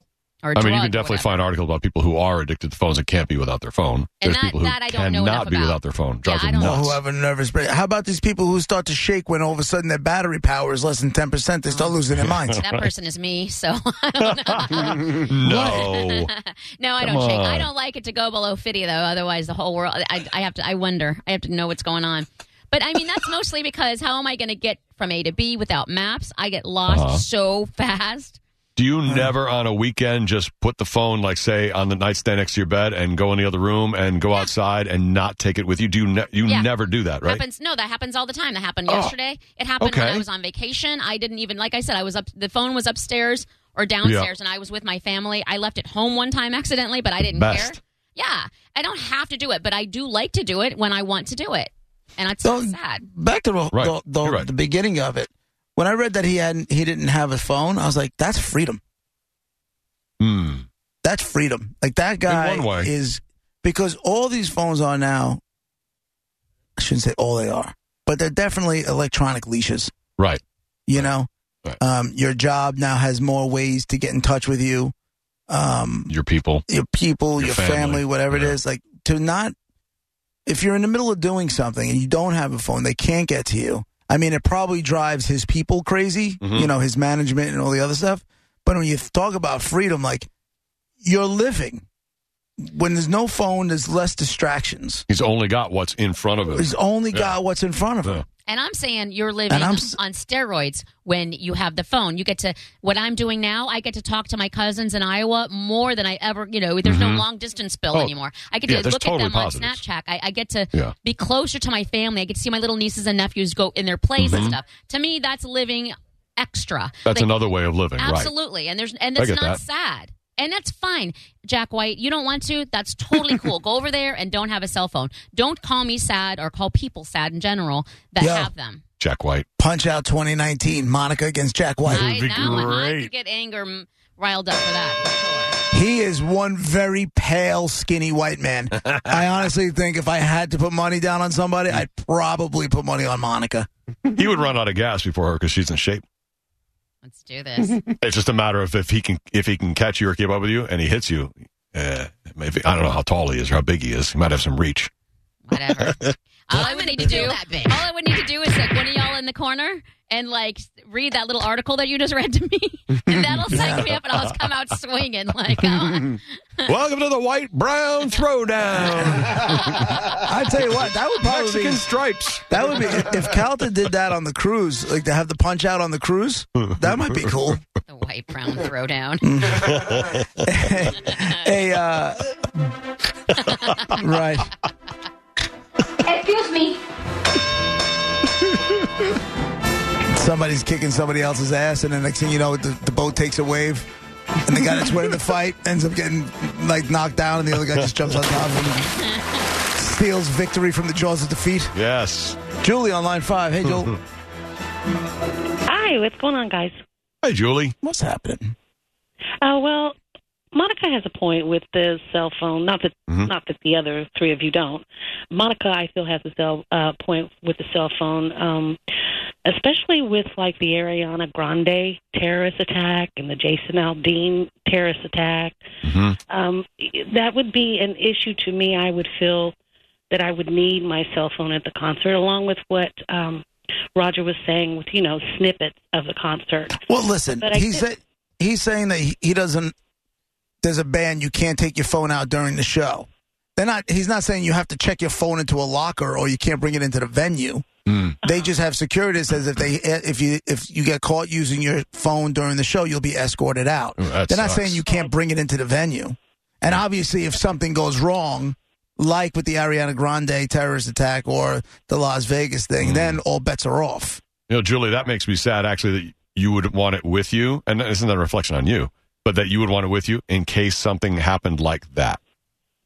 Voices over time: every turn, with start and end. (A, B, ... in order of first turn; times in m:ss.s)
0:00.4-0:01.4 A
0:00.5-0:06.9 B
0:04.2-0:06.9 A
0:06.6-0:12.6 C
0:11.7-0:12.0 A
0:12.5-0:28.4 A
0:15.0-0:16.3 B
0:17.0-0:17.7 B
0:26.9-0:27.2 B
0:28.8-0:37.4 B
0:36.4-0:36.7 A
0:37.2-0:53.0 A
0:38.9-0:39.1 B
0:39.8-0:40.2 B
0:44.0-0:44.3 B
0:47.2-0:47.7 B
0:52.4-0:58.8 C
0:53.7-0:54.5 B
1:00.2-1:00.6 B
1:01.0-1:05.4 C
1:02.3-1:02.9 B
1:06.8-1:09.9 C
1:10.9-1:11.3 C
1:11.8-1:14.9 C
1:15.5-1:16.1 C
1:16.1-1:16.6 B
1:16.7-1:19.5 C
1:17.4-1:18.6 B
1:20.4-1:30.3 C
1:26.4-1:26.7 B
1:31.0-1:31.8 C
1:32.6-1:35.0 C
1:35.1-1:37.4 B
1:36.5-1:38.2 C
1:38.4-2:08.8 A
1:39.5-1:40.0 C
1:46.8-1:47.2 B
1:48.7-1:49.8 B
1:54.2-1:54.6 B
1:57.0-1:58.3 B
1:59.2-1:59.6 B
2:08.2-2:08.5 C
2:09.0-2:09.4 B
2:09.6-2:12.1 C
2:11.8-2:13.1 B
2:11.9-2:15.5 A
2:15.7-2:23.7 C
2:24.1-2:26.0 B
2:27.0-2:27.8 A
2:28.0-2:34.9 B
2:35.5-2:46.7 A
2:36.5-2:37.9 D
2:43.5-2:43.9 C
2:46.6-2:53.2 B
2:50.2-2:51.8 C
2:52.5-2:57.6 C
2:57.9-2:59.3 A
2:59.2-3:02.7 C
2:59.7-3:00.2 B
3:03.4-3:04.0 A
3:03.9-3:04.5 C
3:06.0-3:06.8 D
3:10.1-3:13.9 C
3:14.4-3:19.0 C
3:19.7-3:21.7 C
3:21.7-3:22.4 B
3:22.6-3:23.9 C
3:25.6-3:26.8 E
3:27.2-3:27.7 B
3:27.8-3:28.5 C
3:29.4-3:30.0 E
3:30.5-3:38.8 E
3:39.4-3:45.6 E
3:45.8-3:46.2 B
3:46.3-3:49.5 E
3:50.1-3:56.8 E
3:56.8-3:59.7 C
3:57.4-3:57.9 E
4:00.6-4:07.6 C
4:07.9-4:08.2 B
4:08.2-4:24.2 C
4:14.0-4:14.8 B
4:22.8-4:23.2 B
4:24.5-4:32.2 B